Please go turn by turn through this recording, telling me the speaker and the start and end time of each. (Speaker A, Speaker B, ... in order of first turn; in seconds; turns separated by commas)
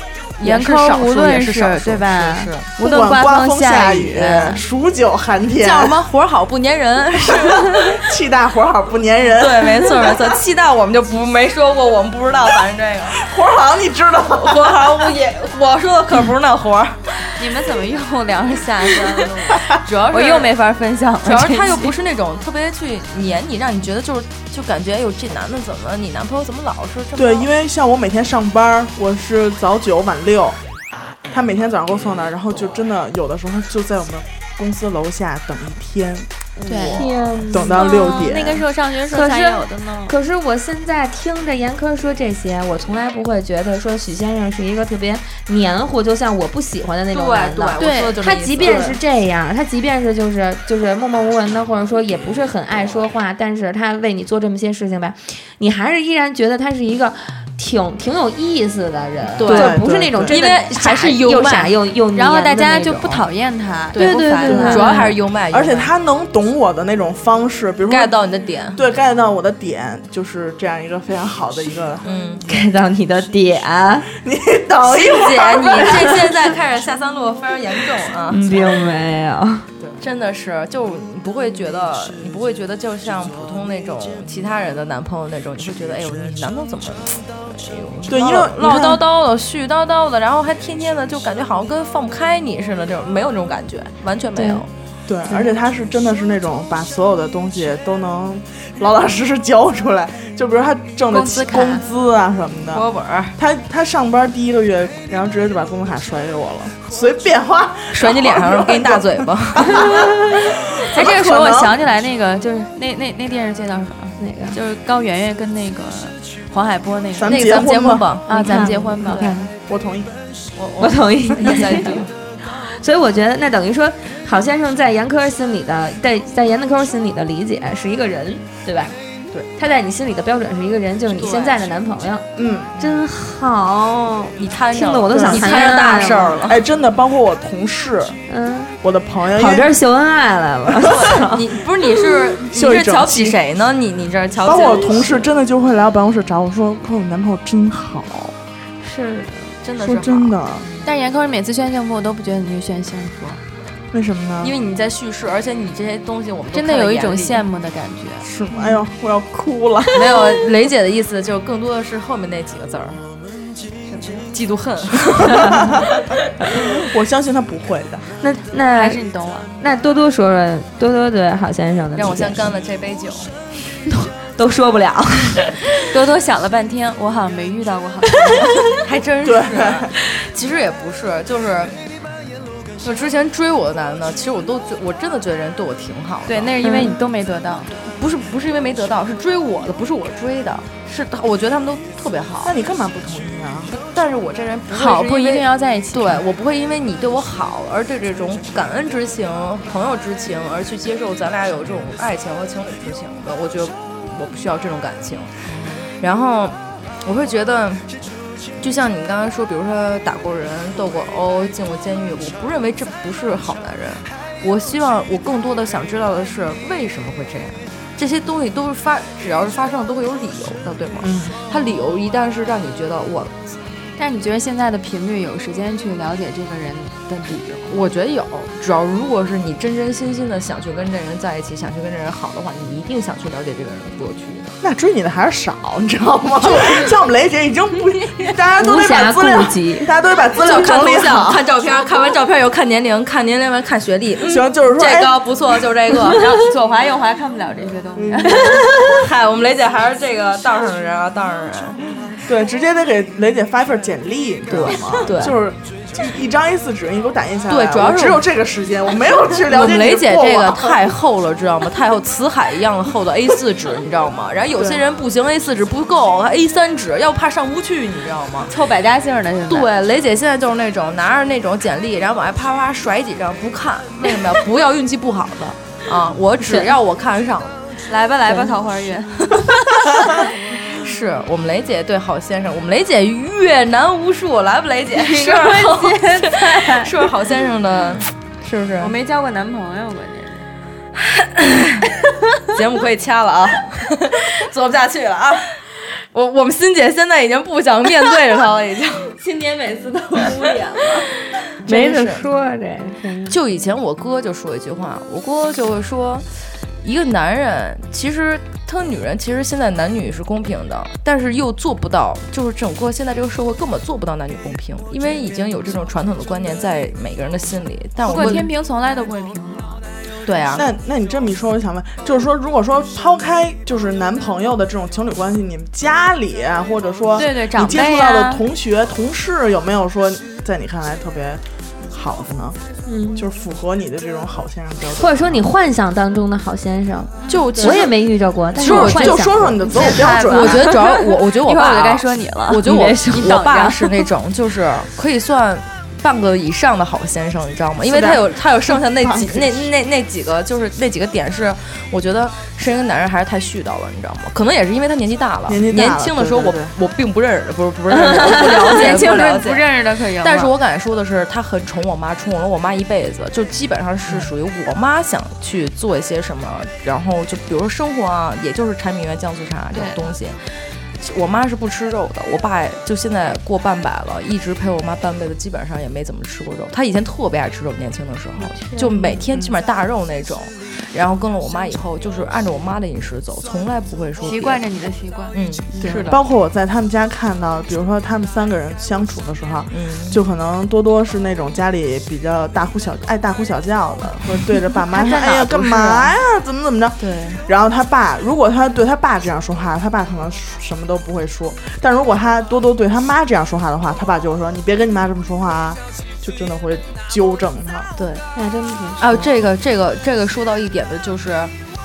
Speaker A: 0.4-2.7, Speaker B: 0.4-4.6, Speaker C: 2.8-6.0, Speaker A: 5.6-8.0, Speaker C: 7.3-10.4, Speaker A: 9.4-13.2, Speaker C: 13.2-15.0, Speaker A: 14.3-17.1, Speaker B: 17.4-21.9, Speaker A: 20.1-20.6, Speaker A: 21.2-27.5, Speaker C: 27.1-30.6, Speaker C: 31.3-38.6, Speaker D: 36.6-38.3, Speaker B: 36.6-37.1, Speaker B: 37.7-40.1, Speaker D: 39.1-63.2, Speaker A: 47.1-48.9, Speaker B: 47.8-48.2, Speaker C: 48.6-49.0, Speaker A: 59.4-61.7, Speaker C: 59.4-60.4, Speaker B: 62.1-64.8, Speaker A: 63.9-65.9, Speaker D: 63.9-65.1, Speaker C: 64.5-64.9, Speaker C: 65.5-68.1, Speaker A: 67.9-68.8, Speaker C: 68.7-72.0, Speaker A: 72.0-72.5, Speaker D: 72.5-74.1, Speaker C: 74.2-76.3, Speaker A: 74.8-78.6, Speaker D: 78.3-79.7, Speaker A: 80.0-94.7, Speaker C: 88.1-89.0, Speaker D: 94.3-94.6, Speaker C: 95.1-111.8, Speaker B: 101.1-101.8, Speaker A: 102.7-103.4, Speaker A: 107.9-110.1, Speaker B: 110.9-117.6, Speaker D: 114.2-114.6, Speaker C: 117.1-118.1, Speaker A: 117.3-119.4, Speaker B: 118.3-119.4, Speaker D: 118.3-119.4, Speaker C: 119.6-120.2, Speaker A: 120.5-122.1, Speaker D: 120.8-128.9, Speaker D: 129.6-132.2, Speaker A: 131.1-131.6, Speaker C: 132.3-132.7, Speaker D: 132.8-136.4, Speaker A: 134.3-136.6, Speaker C: 135.1-138.2, Speaker D: 138.3-138.7, Speaker C: 138.8-139.7, Speaker D: 139.3-141.4, Speaker A: 140.9-145.2, Speaker C: 142.5-143.4, Speaker C: 144.4-148.3, Speaker D: 148.8-149.6, Speaker A: 149.6-150.9, Speaker C: 149.8-150.7, Speaker B: 150.8-153.4, Speaker C: 153.9-154.5, Speaker A: 154.4-157.4, Speaker B: 156.5-158.2, Speaker C: 158.2-160.3, Speaker A: 159.9-163.0, Speaker A: 164.2-165.6, Speaker C: 165.3-165.8, Speaker C: 166.7-168.1, Speaker D: 168.2-169.0, Speaker B: 168.7-169.5, Speaker D: 169.6-172.5, Speaker A: 171.9-173.3, Speaker D: 173.9-175.6, Speaker B: 175.7-178.6, Speaker A: 178.8-181.7, Speaker C: 179.2-179.9, Speaker A: 182.8-186.6, Speaker B: 186.3-187.8, Speaker D: 186.6-186.9, Speaker A: 187.8-192.5, Speaker C: 192.4-193.7, Speaker A: 193.7-207.9, Speaker B: 194.7-196.2, Speaker A: 208.6-223.5, Speaker C: 221.0-221.4, Speaker B: 224.0-227.7, Speaker A: 227.7-234.5, Speaker C: 234.6-241.4, Speaker A: 236.5-236.8, Speaker D: 238.6-239.9, Speaker A: 240.3-246.2, Speaker C: 244.2-245.2, Speaker B: 246.1-248.7, Speaker C: 247.9-248.5, Speaker A: 248.4-251.8, Speaker C: 252.2-260.9, Speaker A: 254.5-255.4, Speaker A: 257.5-258.2, Speaker A: 259.5-268.5, Speaker C: 264.6-264.8, Speaker B: 268.5-269.7, Speaker A: 269.5-277.6, Speaker B: 277.9-279.8, Speaker A: 280.8-288.9, Speaker B: 284.9-287.1, Speaker B: 288.8-290.4, Speaker A: 291.1-291.9, Speaker A: 292.5-299.5, Speaker A: 300.1-300.9, Speaker D: 300.2-300.6, Speaker A: 301.6-302.2, Speaker D: 301.6-303.3, Speaker A: 303.3-306.3, Speaker A: 306.8-318.5, Speaker B: 318.1-319.8, Speaker A: 320.2-320.6, Speaker C: 320.5-332.6, Speaker B: 327.1-328.4, Speaker D: 332.9-333.2, Speaker C: 333.1-335.4, Speaker D: 335.0-339.5, Speaker B: 337.3-337.7, Speaker A: 337.3-337.9, Speaker C: 338.5-340.7, Speaker A: 338.6-370.4, Speaker B: 339.6-343.9, Speaker D: 342.6-343.4, Speaker C: 347.9-349.6, Speaker C: 355.5-356.7, Speaker B: 357.9-360.5, Speaker B: 369.7-370.0, Speaker A: 371.0-384.6, Speaker B: 384.2-386.0, Speaker A: 385.3-386.2, Speaker C: 385.8-407.9, Speaker A: 389.7-390.2, Speaker B: 394.9-396.1, Speaker A: 397.0-397.4, Speaker A: 408.0-408.2, Speaker D: 408.3-409.3, Speaker A: 409.0-411.5